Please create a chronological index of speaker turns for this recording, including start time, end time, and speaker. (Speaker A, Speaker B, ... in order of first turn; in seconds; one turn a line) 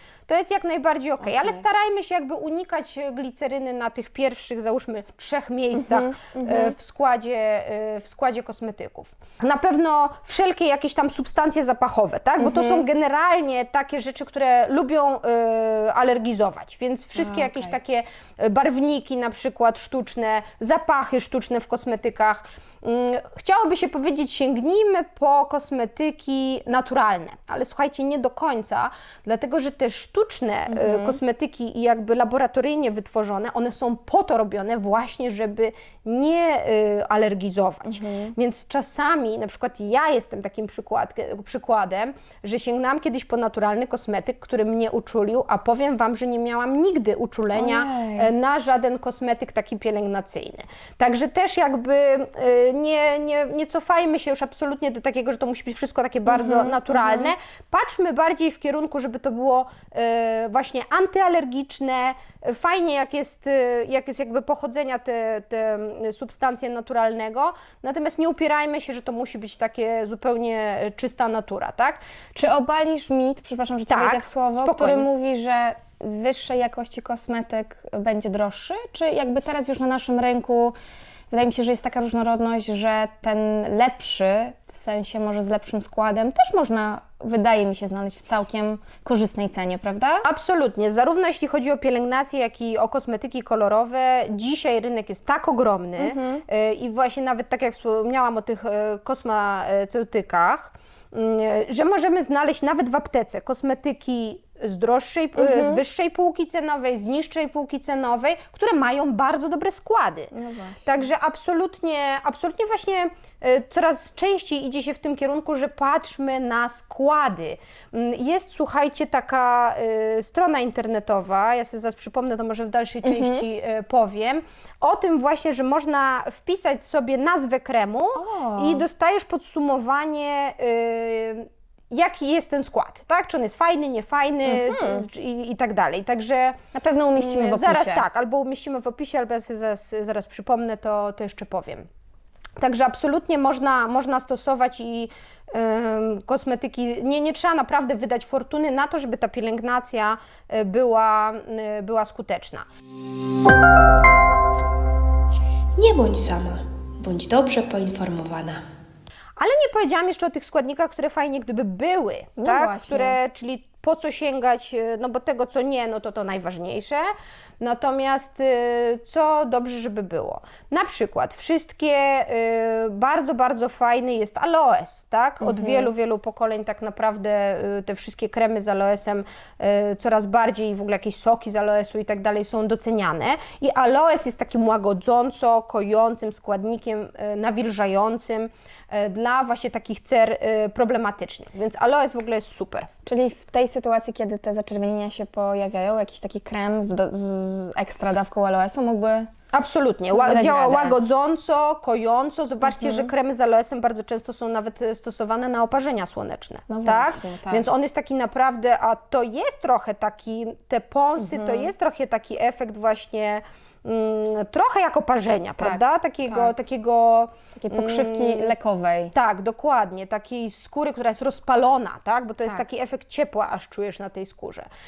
Speaker A: 0.3-72.0
Speaker B: 1.2-1.6
Speaker B: 5.7-6.7
Speaker B: 12.4-12.8
Speaker B: 17.1-17.7
Speaker B: 30.7-31.2
Speaker B: 37.9-38.3
Speaker B: 47.5-48.3
Speaker B: 56.2-57.3
Speaker B: 72.3-80.8
Speaker A: 73.9-75.1
Speaker B: 81.3-90.2
Speaker A: 90.2-110.3
Speaker B: 96.0-96.4
Speaker B: 105.3-105.8
Speaker B: 110.3-111.1
Speaker A: 110.8-136.6
Speaker B: 123.0-123.4
Speaker B: 128.2-128.9
Speaker B: 134.4-135.1
Speaker B: 136.7-138.0
Speaker A: 137.2-141.8
Speaker A: 142.6-152.7
Speaker C: 155.8-158.6
Speaker A: 159.4-167.1
Speaker B: 162.4-163.2
Speaker A: 167.6-192.9
Speaker B: 175.4-175.9
Speaker B: 193.1-199.3
Speaker A: 199.5-218.5
Speaker B: 200.1-201.0
Speaker B: 202.6-203.1
Speaker B: 206.7-207.7
Speaker B: 211.2-211.7
Speaker B: 215.6-216.5
Speaker B: 217.6-219.1
Speaker A: 219.1-224.7